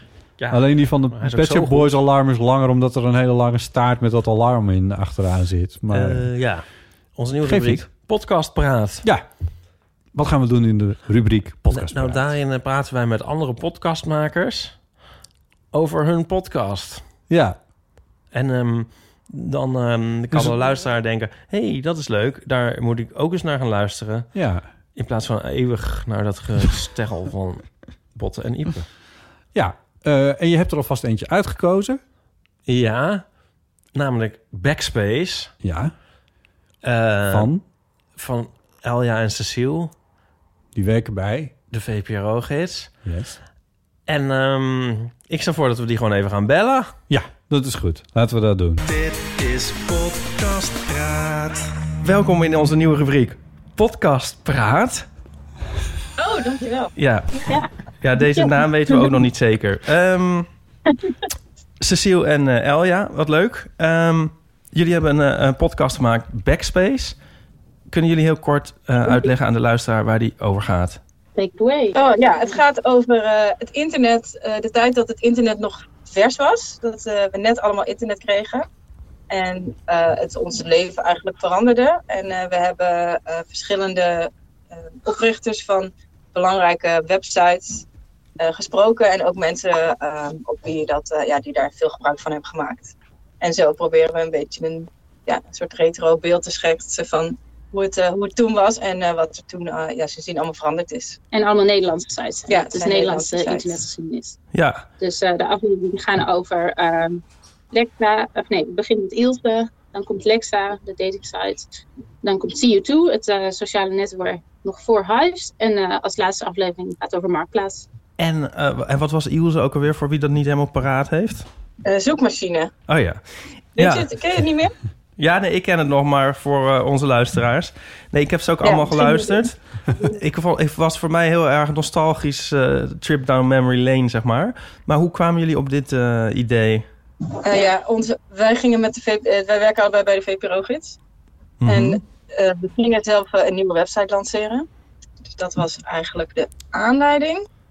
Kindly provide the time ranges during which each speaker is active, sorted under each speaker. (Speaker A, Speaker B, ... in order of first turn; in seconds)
Speaker A: 0.4-2.0, 5.9-9.1, 11.7-14.8, 15.7-17.0, 18.3-24.3, 24.9-28.9, 32.6-33.3, 33.9-35.5, 36.8-37.5, 38.1-39.9, 41.7-42.9, 44.1-46.9, 48.9-55.1, 56.9-57.5, 58.0-60.5, 61.8-67.2, 67.9-71.0, 104.5-104.8, 118.2-121.5, 122.9-123.2, 123.8-124.1, 125.2-136.8, 141.6-142.0
Speaker B: 0.5-6.3, 7.4-7.9, 9.0-9.3, 10.1-12.3, 17.3-17.6, 20.3-20.7, 24.3-24.6, 29.5-32.0, 35.6-35.9, 37.3-37.6, 40.7-41.5, 43.0-43.4, 47.1-48.8
Speaker C: 56.2-56.9, 71.9-78.7, 79.3-87.8, 88.4-101.2, 102.5-103.8, 121.8-122.7, 123.8-124.7, 128.6-130.1, 137.4-141.0, 141.6-144.7, 145.2-147.4
Speaker D: 57.5-59.0, 71.3-72.6, 101.3-104.4, 105.0-117.9